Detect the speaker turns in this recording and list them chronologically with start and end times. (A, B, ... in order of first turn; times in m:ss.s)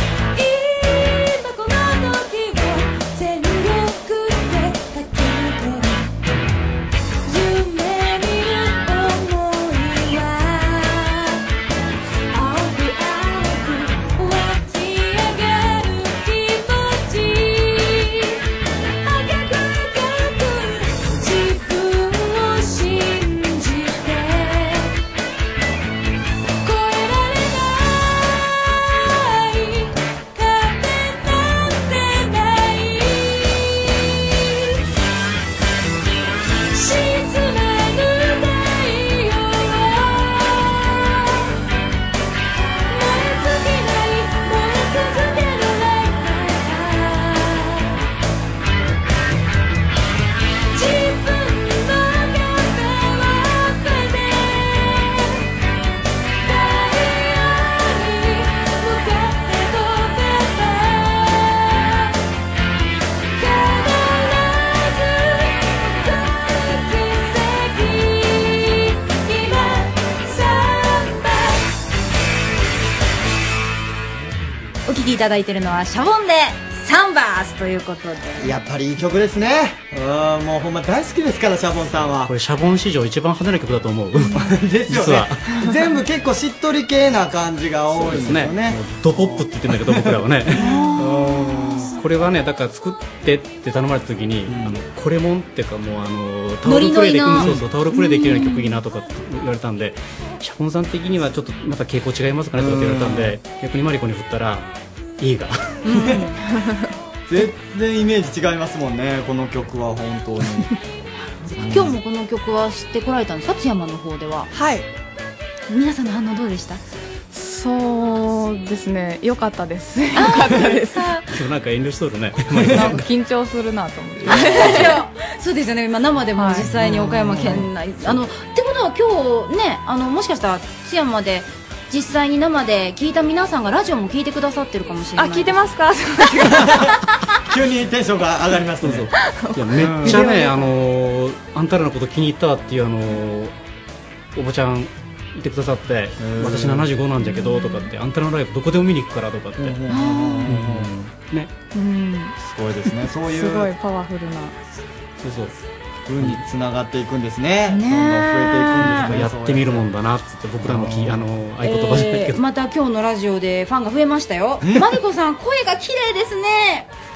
0:00.4-0:06.1 A
0:07.3-0:11.4 A
0:12.3-0:18.2 A
0:19.0-0:24.9 A
0:26.6-0:33.5 A
0:36.7-0:41.2 A
0:42.7-0:47.9 A
0:50.7-0:55.2 A
0:56.4-1:01.7 A
1:03.4-1:08.7 A
1:09.2-1:11.3 A
1:14.8-1:18.5 B
1:18.4-1:22.3 C
1:22.2-1:25.4 D
1:24.3-1:31.9 C
1:27.9-1:30.7 D
1:30.5-1:31.7 B
1:31.8-1:45.8 D
1:34.5-1:34.8 C
1:36.6-1:38.8 B
1:37.4-1:37.7 C
1:42.6-1:43.4 C
1:45.8-1:46.4 B
1:45.9-1:46.3 C
1:47.3-1:50.7 C
1:51.4-1:54.5 B
1:51.6-1:52.0 C
1:54.5-1:54.9 E
1:55.7-1:56.8 B
1:57.3-2:01.2 E
2:00.1-2:01.2 B
2:01.3-2:03.0 D
2:02.7-2:02.9 C
2:02.7-2:04.9 E
2:04.2-2:04.8 D
2:04.2-2:15.7 B
2:06.4-2:06.7 E
2:06.8-2:07.6 C
2:15.2-2:16.9 E
2:17.5-2:19.1 C
2:18.8-2:23.5 D
2:19.3-2:20.6 E
2:19.8-2:20.3 C
2:24.3-2:29.8 D
2:26.2-2:26.9 C
2:27.3-2:27.9 E
2:29.6-2:30.9 C
2:29.9-2:30.5 B
2:30.4-2:31.5 D
2:31.7-2:32.3 E
2:32.4-2:33.7 C
2:33.3-2:34.6 E
2:35.2-2:35.6 D
2:36.1-2:39.9 C
2:37.7-2:39.2 B
2:38.8-2:42.4 D
2:40.6-2:41.2 C
2:41.6-2:46.9 B
2:44.6-2:44.9 C